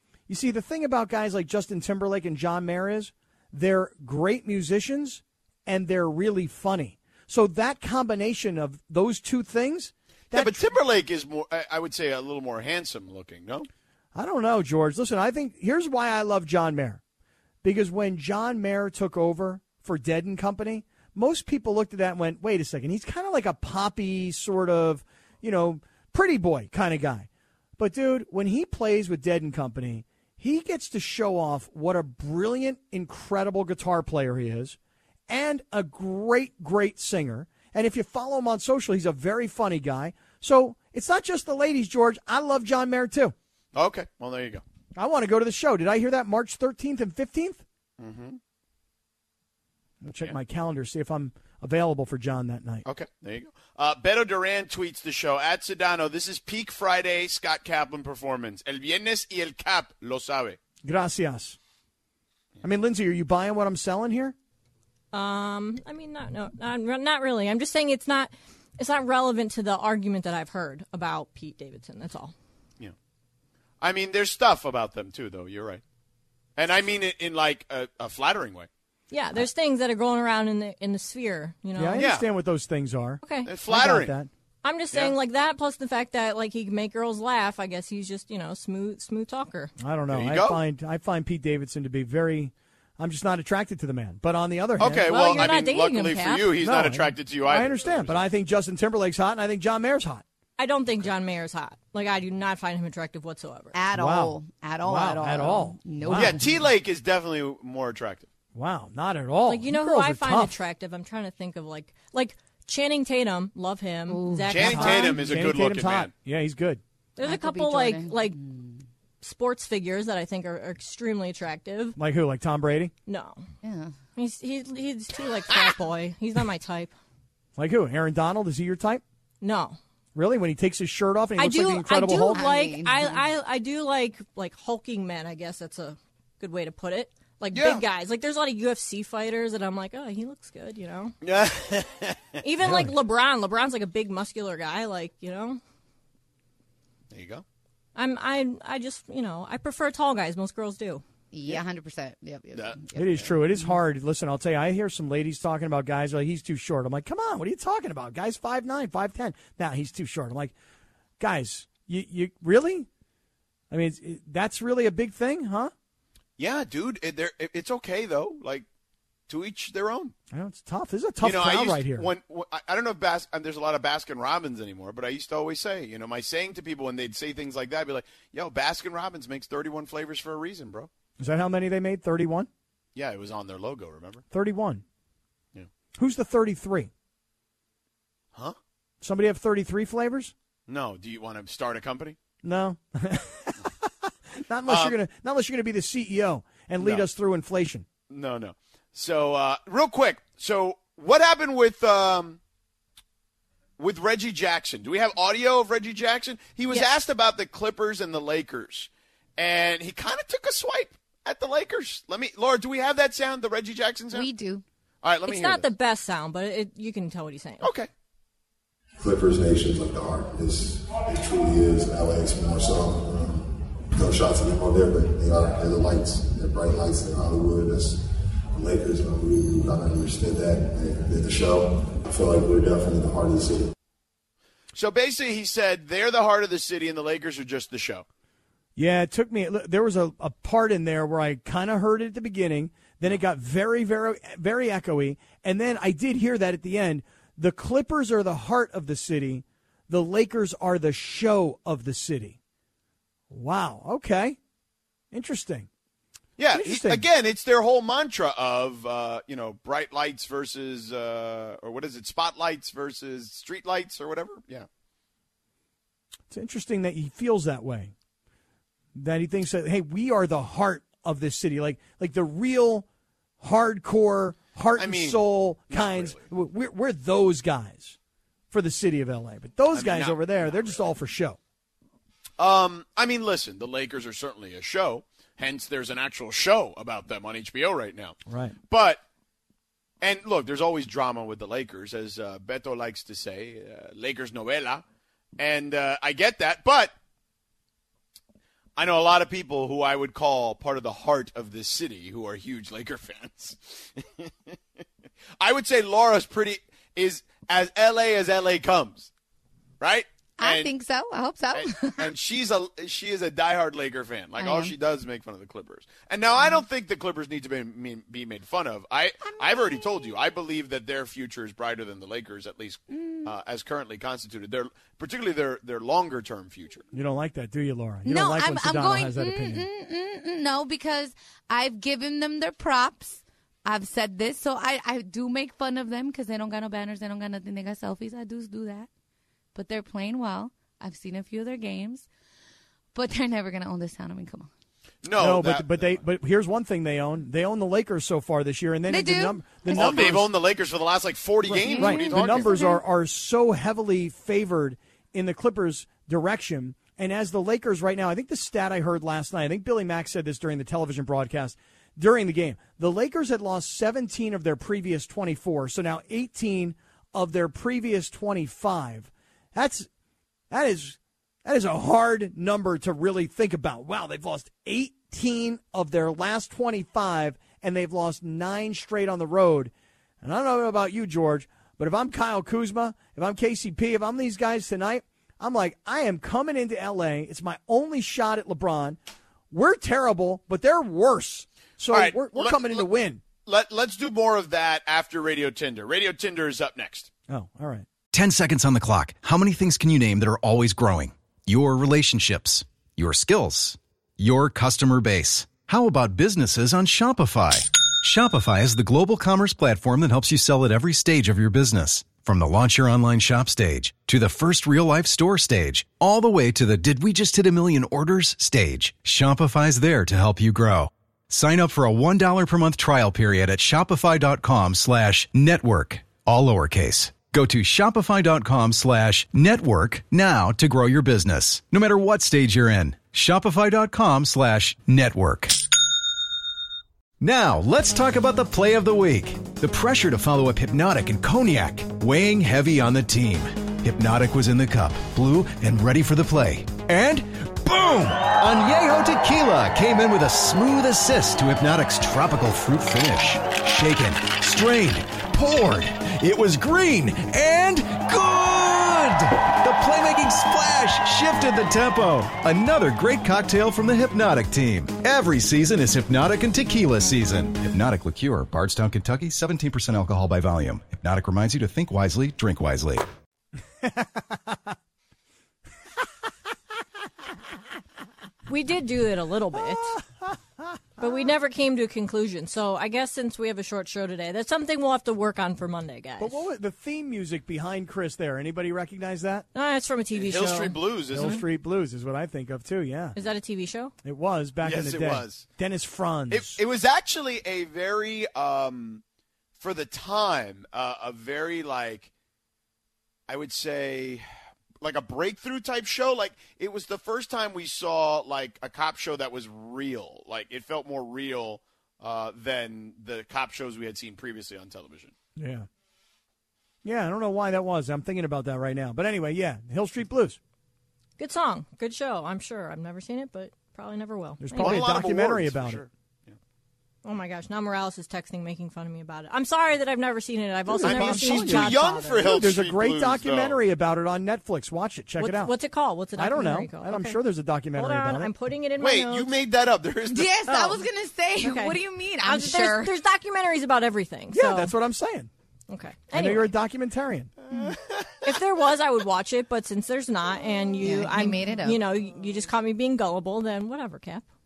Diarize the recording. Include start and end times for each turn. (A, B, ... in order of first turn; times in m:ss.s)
0:00.3-0:10.8 A
0:10.3-0:13.7 B
0:14.1-0:17.0 A
0:17.6-0:34.8 A
0:35.3-0:43.4 A
0:43.8-0:44.6 B
0:45.0-0:47.6 A
0:48.0-0:48.4 B
0:50.0-0:52.8 A
0:52.9-1:00.6 B
1:00.8-1:01.6 A
1:02.6-1:04.4 A
1:05.1-1:12.3 C
1:13.8-1:15.8 B
1:16.6-1:18.7 B
1:19.1-1:22.1 C
1:21.8-1:24.3 A
1:22.0-1:22.2 B
1:23.2-1:23.5 C
1:23.4-1:24.1 B
1:24.6-1:29.7 C
1:29.8-1:35.5 A
1:30.1-1:30.6 B
1:34.8-1:38.2 B
1:34.8-1:36.5 C
1:36.6-1:40.2 A
1:40.6-1:43.8 C
1:43.7-1:46.5 D
1:43.9-1:46.4 A
1:46.1-1:48.3 B
1:48.6-1:50.6 A
1:49.5-1:55.2 C
1:54.1-1:54.5 D
1:54.5-1:56.1 B
1:54.6-1:56.8 A
1:57.2-1:58.4 C
1:57.2-1:58.8 D
1:59.2-2:02.0 C
2:02.0-2:02.9 A
2:03.1-2:03.4 C
2:03.6-2:03.9 D
2:04.2-2:06.9 C
2:07.6-2:09.0 A
2:09.4-2:09.8 C
2:10.1-2:12.4 A
2:11.4-2:21.1 C
2:12.3-2:13.2 D
2:17.5-2:17.8 B
2:21.2-2:22.4 B
2:22.4-2:25.6 C
2:22.6-2:22.9 A
2:27.1-2:27.4 B
2:27.9-2:31.0 C
2:31.3-2:33.8 D
2:32.5-2:32.9 B
2:32.9-2:40.6 A
2:41.2-2:42.9 A
2:43.7-2:45.7 A
2:46.4-2:48.6 B
2:49.3-2:50.1 B
2:50.3-2:52.1 A
2:51.2-3:00.9 B
3:01.2-3:02.5 A
3:02.9-3:04.2 B
3:04.3-3:04.8 A
3:06.0-3:06.9 A
3:09.0-3:10.3 A
3:10.7-3:12.2 B
3:12.4-3:17.9 A
3:14.7-3:15.0 B
3:18.1-3:22.4 B
3:23.8-3:34.3 B
3:34.1-3:34.6 D
3:35.0-3:35.6 B
3:35.3-3:37.7 C
3:37.6-3:37.9 B
3:39.0-3:53.7 E
3:54.7-3:58.0 B
3:58.8-4:12.4 A
4:13.3-4:14.4 A
4:15.1-4:15.7 A
4:16.4-4:24.7 B
4:16.5-4:17.0 A
4:26.3-4:27.9 A
4:28.9-4:32.9 A
4:33.4-4:38.0 A
4:34.8-4:36.3 B
4:38.5-4:41.4 A
4:39.7-4:40.8 B
4:42.4-4:48.2 B
4:48.3-4:48.6 A
4:48.7-4:49.0 B
4:50.0-4:54.8 B
4:55.4-4:56.9 B
4:58.8-5:04.5 B
5:05.4-5:09.1 B
5:09.8-5:10.7 B
5:10.4-5:12.1 D
5:11.5-5:26.8 B
5:14.4-5:14.7 D
5:19.4-5:19.8 D
5:22.9-5:23.3 D
5:26.9-5:29.6 A
5:28.0-5:38.9 D
5:39.6-5:42.1 D
5:42.9-5:44.5 D
5:45.0-5:46.0 B
5:45.2-5:50.3 A
5:48.9-5:50.2 D
5:49.7-5:52.6 B
5:51.5-6:09.9 A
5:51.5-5:52.8 D
6:10.5-6:29.0 A
6:29.5-6:33.2 A
6:31.9-6:32.9 B
6:33.4-6:37.1 B
6:37.3-6:37.9 A
6:38.1-7:15.6 F
7:17.2-7:53.1 F
7:53.8-7:54.6 A
7:58.5-8:00.0 C
8:01.0-8:06.4 C
8:06.2-8:09.4 A
8:09.6-8:11.4 C
8:10.1-8:11.4 B
8:11.1-8:13.2 A
8:13.1-8:13.9 C
8:14.0-8:16.6 A
8:14.6-8:15.4 B
8:16.3-8:19.0 B
8:19.6-8:22.1 B
8:23.3-8:24.2 B
8:24.8-8:35.1 B
8:35.4-8:35.7 A
8:36.8-8:40.4 A
8:41.2-8:44.8 C
8:44.4-8:45.8 A
8:44.6-8:46.4 B
8:47.0-8:52.2 C
8:50.7-8:55.5 A
8:50.8-8:53.6 B
8:55.2-8:57.2 C
8:56.2-8:58.3 A
8:57.7-8:59.3 C
8:58.8-9:00.4 B
9:00.1-9:02.9 D
9:00.5-9:00.8 C
9:01.4-9:04.7 C
9:04.3-9:05.3 A
9:05.7-9:06.5 C
9:06.1-9:07.3 A
9:07.5-9:08.1 B
9:08.2-9:14.2 C
9:10.8-9:11.8 D